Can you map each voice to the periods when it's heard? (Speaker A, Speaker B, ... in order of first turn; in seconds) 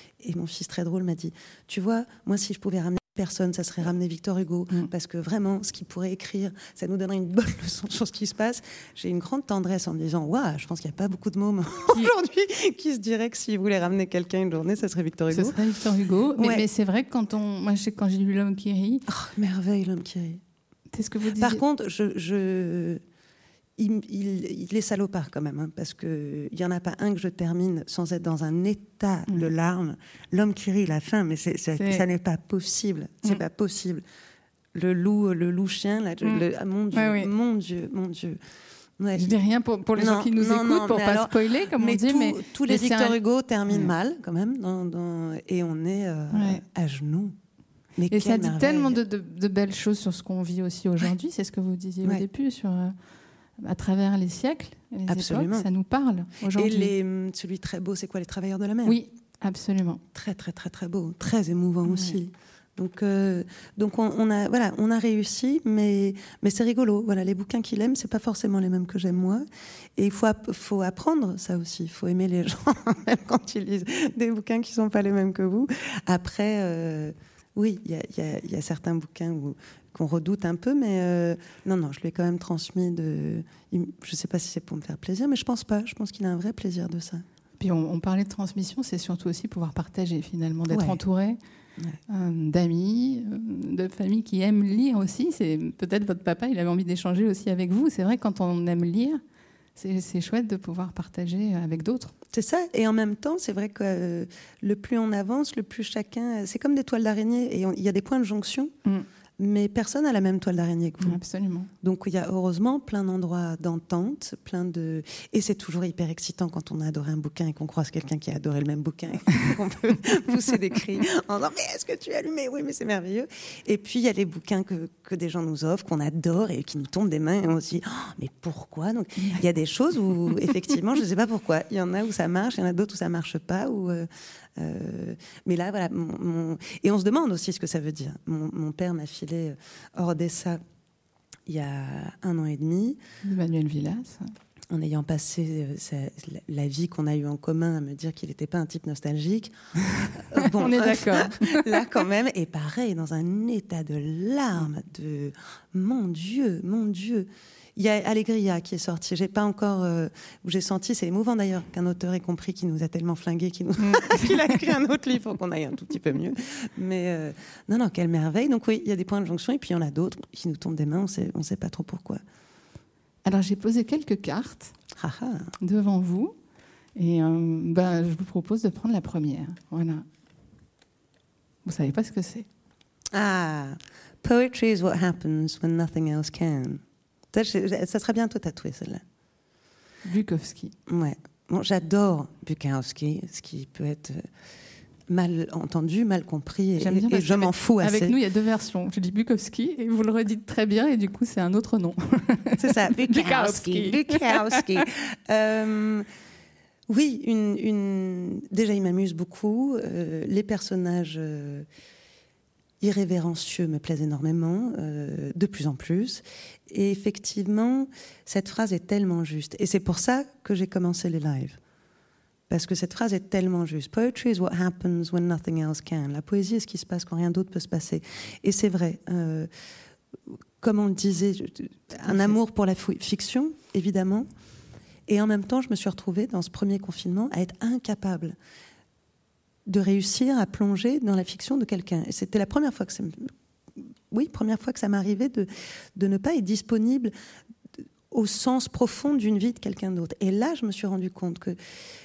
Speaker A: 0.2-15.6, 16.4-16.6, 19.1-20.4, 21.4-23.0, 23.8-34.0, 34.7-38.4, 39.0-39.4, 39.9-47.4, 48.0-49.0, 55.1-55.7, 56.4-59.0, 60.1-69.4, 70.0-87.2, 90.7-91.0, 102.3-108.7, 109.4-111.2, 111.8-140.6, 141.5-143.0, 144.7-172.2, 174.9-175.5, 183.1-189.0, 190.9-194.3, 195.1-198.1, 202.6-206.1, 206.9-211.7, 212.8-221.6, 222.5-229.5, 230.3-234.3, 235.1-238.4, 239.7-247.1, 248.1-251.6
Speaker B: 15.3-19.1, 20.9-21.6, 31.8-32.0, 36.2-37.3, 39.1-43.2, 46.3-46.6, 48.1-53.0, 53.6-56.9, 58.9-60.0, 61.9-62.2, 87.6-91.4, 92.1-99.2, 99.8-102.1, 111.0-111.7, 143.2-144.3, 149.9-151.7, 163.8-164.4, 173.2-174.7, 175.6-176.4, 176.9-180.1, 181.6-182.4, 190.1-190.7, 196.8-204.6, 232.0-232.4